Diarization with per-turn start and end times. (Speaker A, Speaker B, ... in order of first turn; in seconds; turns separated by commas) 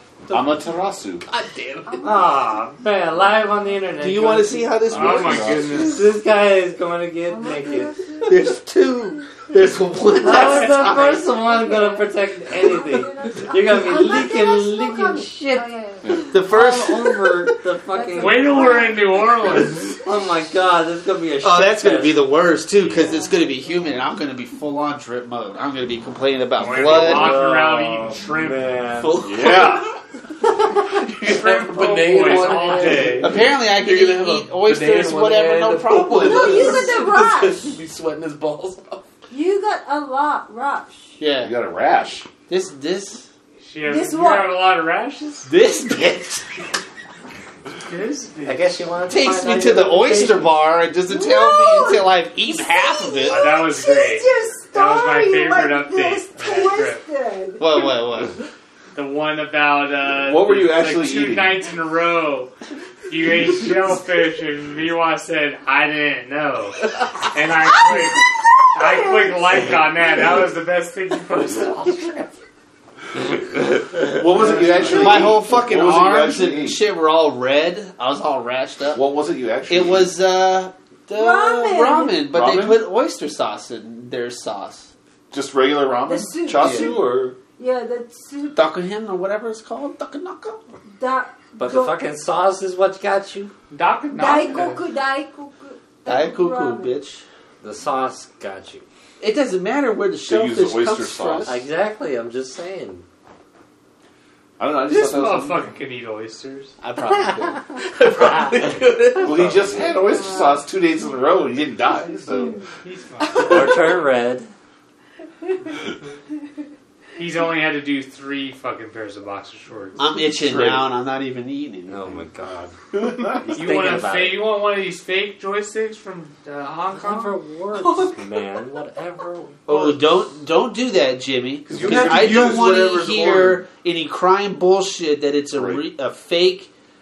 Speaker A: 0.3-1.3, Speaker B: 1.3-2.2, Speaker C: 1.9-2.4, Speaker D: 2.0-4.7, Speaker E: 4.0-5.7, Speaker A: 4.9-5.9, Speaker F: 4.9-6.0, Speaker D: 5.8-8.0, Speaker C: 7.3-8.4, Speaker E: 8.2-11.2, Speaker D: 10.2-15.7, Speaker C: 10.9-16.3, Speaker A: 16.0-16.3, Speaker E: 16.3-17.0, Speaker D: 16.5-18.8, Speaker C: 17.9-19.6, Speaker F: 18.2-19.9, Speaker D: 20.0-22.3, Speaker E: 21.4-27.5, Speaker C: 22.9-24.1, Speaker F: 26.6-28.8, Speaker D: 26.7-29.3, Speaker E: 29.0-29.7, Speaker A: 29.2-29.9, Speaker B: 31.0-39.0, Speaker F: 31.2-33.4, Speaker E: 32.9-36.9, Speaker C: 36.1-37.8, Speaker C: 39.3-41.2, Speaker E: 41.2-41.5, Speaker A: 41.3-42.3, Speaker E: 42.5-43.3, Speaker F: 43.6-45.5, Speaker C: 43.9-44.6, Speaker E: 45.5-46.6, Speaker F: 47.8-48.7, Speaker D: 48.5-50.6, Speaker E: 49.1-53.5, Speaker C: 51.1-52.0, Speaker C: 52.6-58.0, Speaker F: 53.3-57.0, Speaker E: 57.6-58.4, Speaker F: 58.9-62.5, Speaker A: 60.1-61.6, Speaker F: 63.1-72.4, Speaker C: 69.0-69.7, Speaker A: 74.0-76.8, Speaker E: 74.8-79.1, Speaker A: 78.9-80.1, Speaker E: 79.7-84.9, Speaker C: 81.1-82.2, Speaker A: 82.3-82.8, Speaker A: 85.3-87.4, Speaker C: 86.0-88.7, Speaker E: 86.6-87.0, Speaker E: 88.5-90.6, Speaker C: 90.9-92.1, Speaker D: 91.5-93.5, Speaker F: 93.7-94.8, Speaker C: 94.1-97.0, Speaker E: 96.1-97.2, Speaker D: 97.6-98.8, Speaker E: 99.2-101.6, Speaker A: 100.2-101.6, Speaker D: 101.5-103.0, Speaker A: 104.6-105.7, Speaker F: 104.8-106.8, Speaker E: 106.8-107.6, Speaker B: 107.3-109.7, Speaker A: 109.2-112.6, Speaker C: 110.1-110.6, Speaker F: 112.8-113.9, Speaker D: 113.4-114.5, Speaker F: 117.2-120.0, Speaker E: 120.0-122.2, Speaker A: 120.3-120.9, Speaker D: 121.9-122.8, Speaker A: 122.9-123.6, Speaker D: 123.3-124.5, Speaker F: 123.5-127.4, Speaker D: 126.9-129.6, Speaker B: 127.8-128.2, Speaker B: 129.7-130.1, Speaker E: 129.7-136.7, Speaker B: 131.7-133.7, Speaker A: 131.7-132.8, Speaker A: 135.6-135.8